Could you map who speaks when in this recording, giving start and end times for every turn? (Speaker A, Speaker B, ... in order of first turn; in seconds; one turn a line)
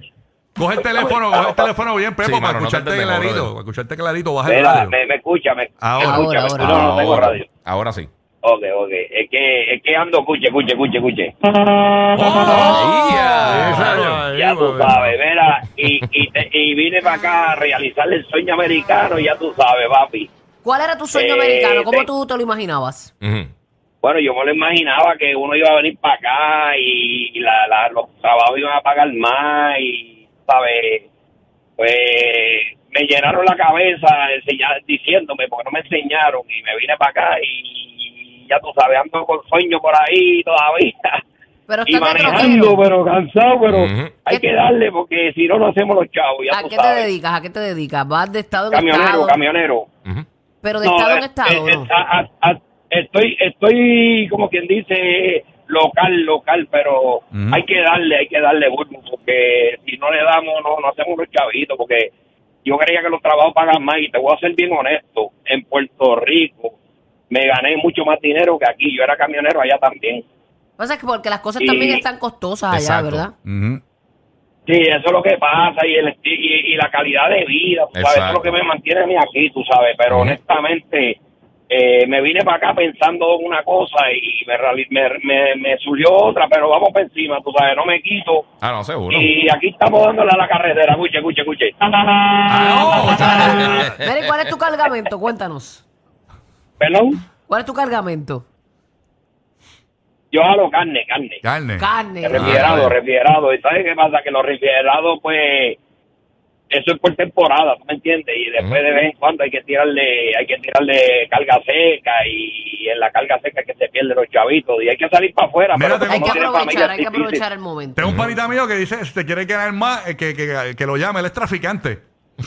Speaker A: 0.6-4.9
Speaker B: 0.7-1.7
Speaker C: 2.2-3.5
Speaker B: 4.5-7.5
Speaker A: 5.8-6.8
Speaker D: 6.0-6.9
Speaker C: 6.6-8.1
Speaker B: 8.4-11.7
Speaker A: 12.1-15.1
Speaker B: 12.2-12.5
Speaker D: 12.4-13.8
Speaker C: 12.7-14.2
Speaker B: 13.8-20.3
Speaker C: 15.8-16.0
Speaker D: 20.6-23.1
Speaker B: 21.1-22.1
Speaker C: 23.2-23.5
Speaker B: 24.0-31.1
Speaker B: 31.8-41.2
Speaker D: 41.7-42.8
Speaker B: 41.9-47.1
Speaker C: 43.7-44.2
Speaker D: 46.5-49.4
Speaker B: 48.7-49.9
Speaker D: 50.6-51.9
Speaker B: 50.8-62.1
Speaker A: 57.3-57.6
Speaker B: 62.6-66.7
Speaker B: 67.3-70.2
Speaker D: 70.8-73.3
Speaker B: 71.6-72.0
Speaker C: 72.7-73.3
Speaker A: 73.4-73.8
Speaker B: 74.7-81.2
Speaker C: 77.9-78.6
Speaker C: 80.1-80.4
Speaker B: 81.7-88.4
Speaker C: 88.6-89.3
Speaker B: 89.1-93.8
Speaker A: 92.5-93.9
Speaker D: 93.1-95.8
Speaker B: 96.8-97.2
Speaker D: 97.5-98.4
Speaker B: 100.3-101.4
Speaker A: 101.4-102.8
Speaker D: 101.8-102.4
Speaker B: 102.2-105.8
Speaker C: 102.3-102.9
Speaker B: 106.7-117.4
Speaker A: 115.7-116.4
Speaker D: 116.0-118.1
Speaker A: 118.0-122.0
Speaker C: 118.0-118.3